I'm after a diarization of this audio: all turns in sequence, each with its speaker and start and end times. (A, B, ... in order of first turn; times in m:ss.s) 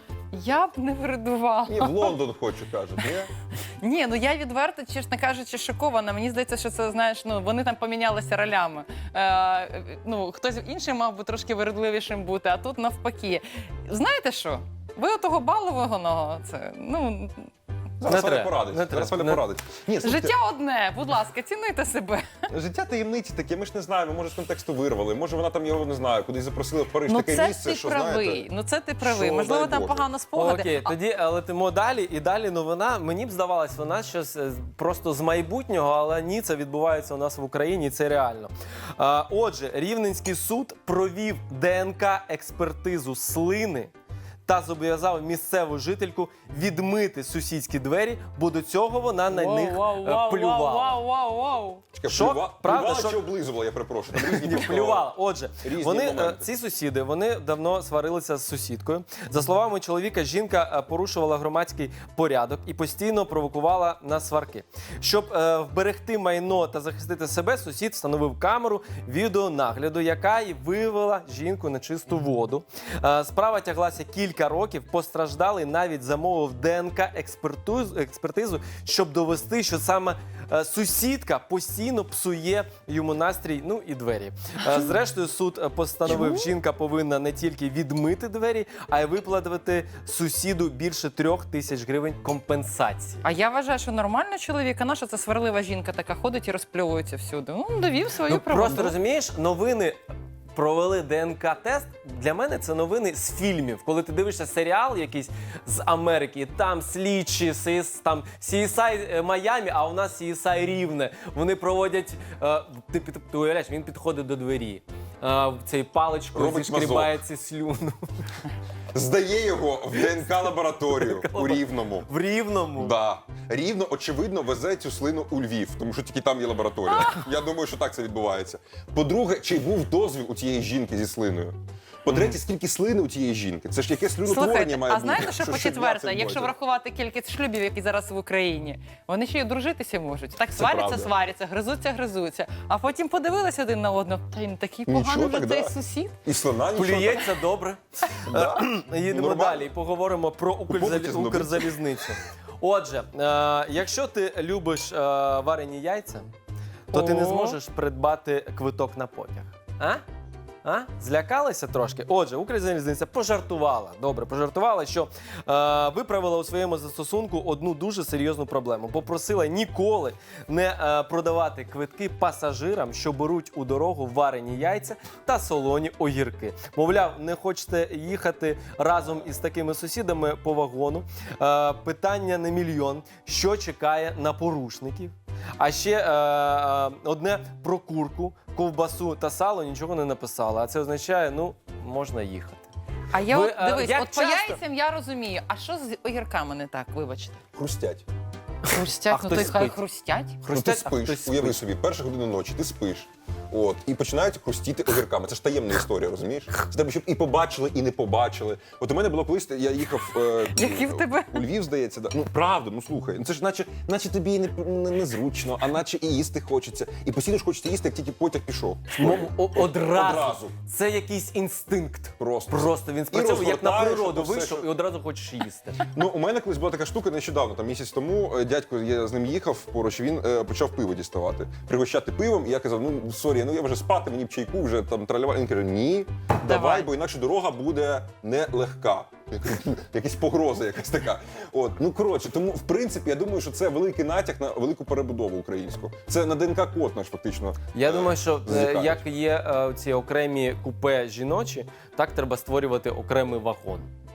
0:00.3-0:02.2 A
0:01.6-0:03.3 B
0:03.8-0:17.5 A
0:18.0-0:20.4 B
0:18.0-0:19.5 C
0:20.0-0:22.2 A
0:22.5-0:28.5 B
0:27.1-0:30.9 A
0:29.0-0:30.1 B
0:30.3-0:43.9 C
0:44.4-0:51.0 C
0:49.3-0:51.8 A
0:51.9-0:55.1 B
0:52.0-0:53.2 C
0:54.1-1:33.2 C
0:55.6-0:56.4 B
1:26.1-1:26.5 A
1:33.2-1:38.9 A
1:38.3-1:40.0 C
1:40.5-1:58.3 C
1:56.3-1:57.2 B
1:58.9-2:02.1 B
2:00.9-2:02.9 C
2:02.7-2:16.5 B
2:12.1-2:12.4 C
2:14.2-2:26.1 A
2:20.6-2:21.1 B
2:24.9-2:27.4 B
2:26.7-2:36.3 C
2:28.1-2:29.7 B
2:30.7-2:31.8 B
2:36.9-2:37.6 A
2:36.9-2:40.0 C
2:40.6-3:12.7 C
3:13.1-3:17.4 A
3:13.3-3:14.6 C
3:17.5-3:18.0 B
3:18.7-3:20.4 A
3:19.1-3:19.8 C
3:20.4-3:21.6 C
3:20.5-3:40.5 B
3:30.5-3:31.4 A
3:38.9-3:45.8 C
3:42.2-3:44.7 B
3:45.9-4:09.0 B
3:56.4-3:56.9 A
4:07.7-4:13.9 C